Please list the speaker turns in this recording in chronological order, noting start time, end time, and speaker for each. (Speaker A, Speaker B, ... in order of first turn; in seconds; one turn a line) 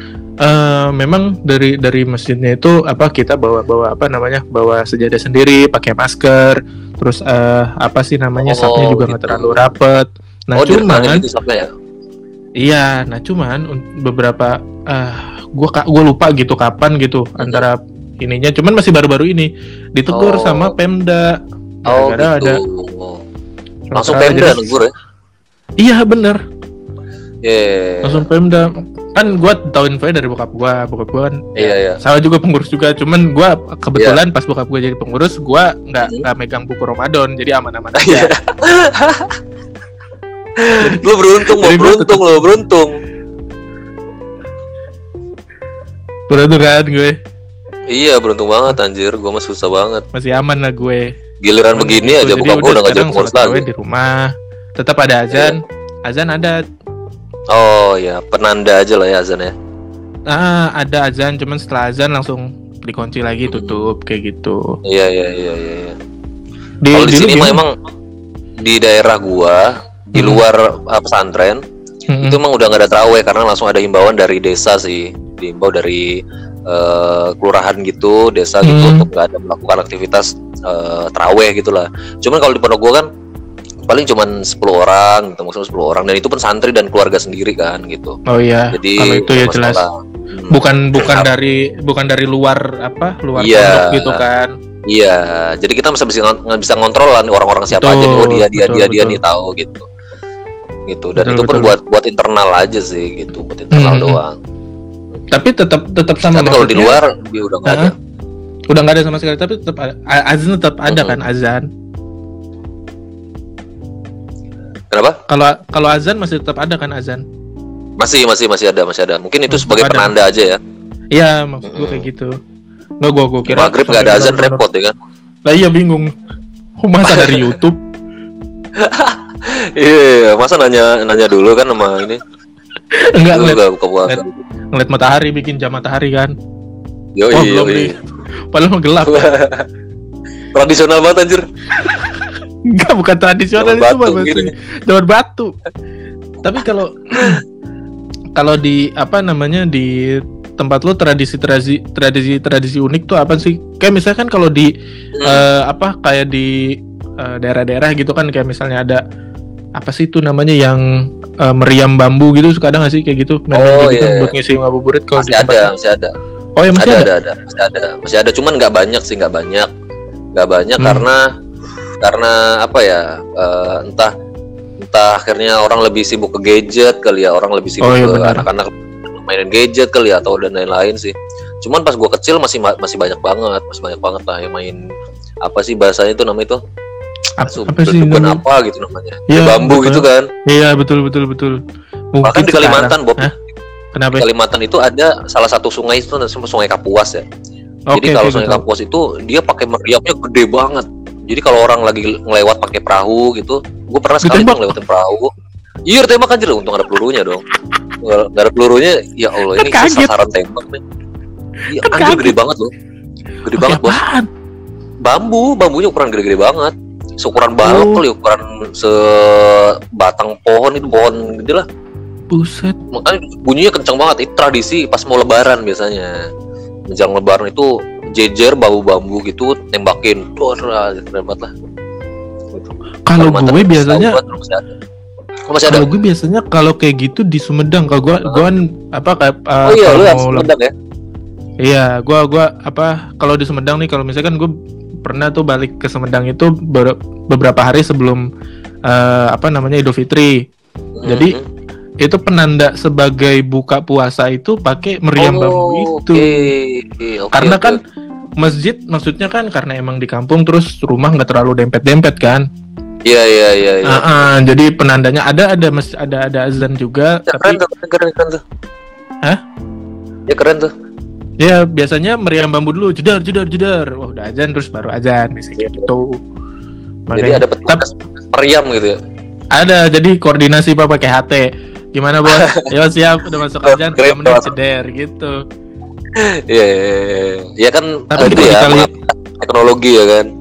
Speaker A: 0.4-11.2
Speaker B: 8.4-9.6
Speaker B: 10.6-11.7
Speaker A: 12.6-22.6
Speaker B: 17.4-17.7
Speaker B: 20.1-20.7
Speaker B: 21.9-23.2
Speaker A: 23.9-24.7
Speaker B: 24.0-24.9
Speaker A: 25.8-26.4
Speaker B: 27.4-28.3
Speaker A: 28.0-38.3
Speaker B: 31.6-32.0
Speaker B: 38.0-39.4
Speaker B: 40.6-42.9
Speaker A: 40.8-42.4
Speaker A: 46.3-47.2
Speaker B: 47.9-50.1
Speaker A: 50.1-51.1
Speaker B: 51.4-53.7
Speaker A: 51.8-56.6
Speaker B: 57.5-59.5
Speaker A: 60.3-64.8
Speaker B: 63.5-63.9
Speaker B: 64.8-66.0
Speaker A: 66.8-67.6
Speaker B: 66.9-67.7
Speaker B: 68.6-71.6
Speaker A: 70.2-70.4
Speaker A: 72.1-72.4
Speaker B: 72.2-83.1
Speaker A: 78.6-79.1
Speaker B: 83.9-88.2
Speaker A: 88.3-89.8
Speaker B: 88.7-91.3
Speaker A: 90.5-94.5
Speaker B: 93.4-94.2
Speaker B: 94.9-99.9
Speaker A: 97.7-99.2
Speaker B: 100.9-104.4
Speaker A: 101.2-101.8
Speaker A: 103.7-104.2
Speaker A: 105.3-107.0
Speaker B: 106.3-108.0
Speaker A: 107.7-107.9
Speaker A: 108.7-111.7
Speaker B: 110.9-111.2
Speaker B: 114.9-115.2
Speaker A: 115.3-117.2
Speaker B: 118.0-120.6
Speaker A: 119.5-120.1
Speaker A: 121.2-122.3
Speaker B: 121.7-122.0
Speaker A: 123.0-124.6
Speaker B: 123.5-125.0
Speaker A: 125.5-126.1
Speaker A: 126.8-127.8
Speaker B: 127.0-127.5
Speaker B: 128.8-132.2
Speaker A: 132.9-134.2
Speaker B: 133.2-134.4
Speaker A: 134.8-136.3
Speaker B: 137.2-137.9
Speaker A: 137.3-139.3
Speaker B: 139.1-139.7
Speaker B: 140.5-141.4
Speaker A: 142.7-145.5
Speaker B: 143.6-144.5
Speaker A: 146.4-147.4
Speaker A: 148.4-154.7
Speaker B: 155.2-155.4
Speaker A: 155.2-159.0
Speaker A: 159.8-165.7
Speaker B: 163.5-164.3
Speaker B: 165.2-166.2
Speaker A: 166.6-167.1
Speaker B: 166.8-169.7
Speaker B: 170.3-171.3
Speaker A: 170.8-171.1
Speaker B: 172.0-174.1
Speaker B: 174.8-184.8
Speaker A: 177.8-178.5
Speaker B: 185.4-186.6
Speaker A: 187.4-188.4
Speaker B: 187.4-190.3
Speaker A: 189.3-191.6
Speaker A: 192.1-193.3
Speaker B: 192.2-193.3
Speaker A: 193.9-194.3
Speaker B: 194.2-197.2
Speaker A: 197.9-198.6
Speaker B: 197.9-205.3
Speaker A: 204.2-204.7
Speaker B: 205.9-207.4
Speaker B: 208.0-210.8
Speaker A: 209.5-210.1
Speaker B: 211.7-212.7
Speaker A: 211.8-212.4
Speaker B: 213.4-214.0
Speaker A: 213.6-214.3
Speaker B: 215.0-221.7
Speaker A: 217.6-218.0
Speaker A: 222.3-222.8
Speaker B: 222.9-226.1
Speaker B: 226.9-231.5
Speaker B: 232.5-234.7
Speaker A: 233.1-234.2
Speaker B: 235.5-235.9
Speaker A: 235.7-240.5
Speaker B: 239.7-240.7
Speaker A: 241.6-244.5
Speaker A: 245.0-248.3
Speaker A: 248.9-250.4
Speaker B: 251.0-251.5
Speaker A: 251.1-251.4
Speaker A: 252.0-256.5
Speaker B: 255.2-257.8
Speaker A: 257.3-257.8
Speaker A: 258.4-262.4
Speaker B: 263.1-264.3
Speaker A: 263.9-267.6
Speaker B: 267.3-268.4
Speaker B: 270.3-270.7
Speaker A: 271.4-276.2
Speaker B: 275.6-275.9
Speaker A: 277.1-277.8
Speaker B: 277.1-279.0
Speaker A: 279.5-285.4
Speaker B: 282.3-282.7
Speaker B: 283.6-284.5
Speaker B: 286.1-290.3
Speaker A: 288.1-288.9